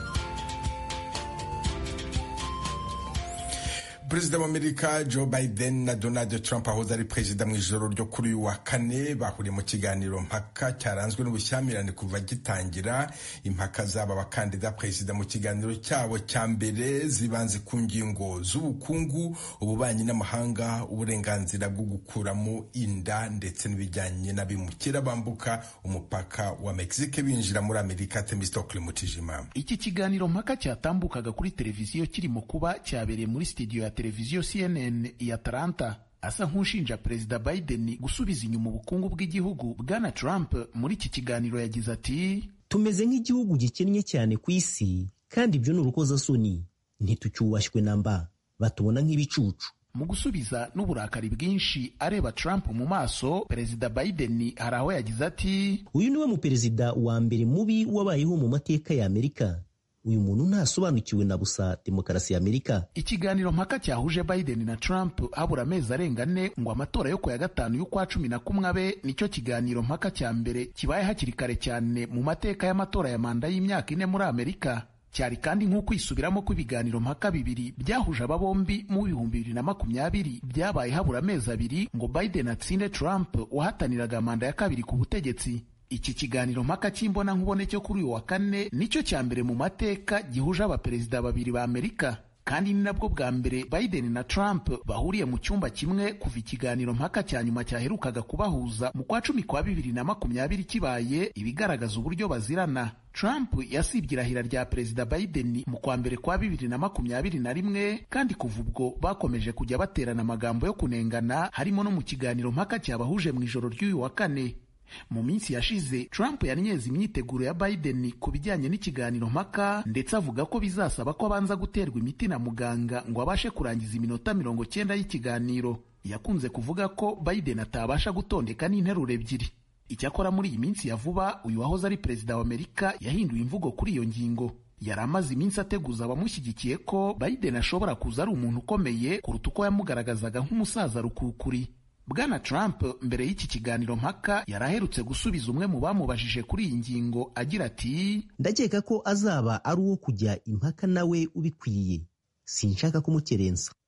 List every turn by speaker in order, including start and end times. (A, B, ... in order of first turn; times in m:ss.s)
0:04.0-0:29.5 A
0:29.5-0:42.6 B
0:42.7-0:49.7 C
0:49.9-0:55.9 B
0:55.9-1:02.9 C
1:03.0-2:28.3 B
2:28.4-2:33.7 C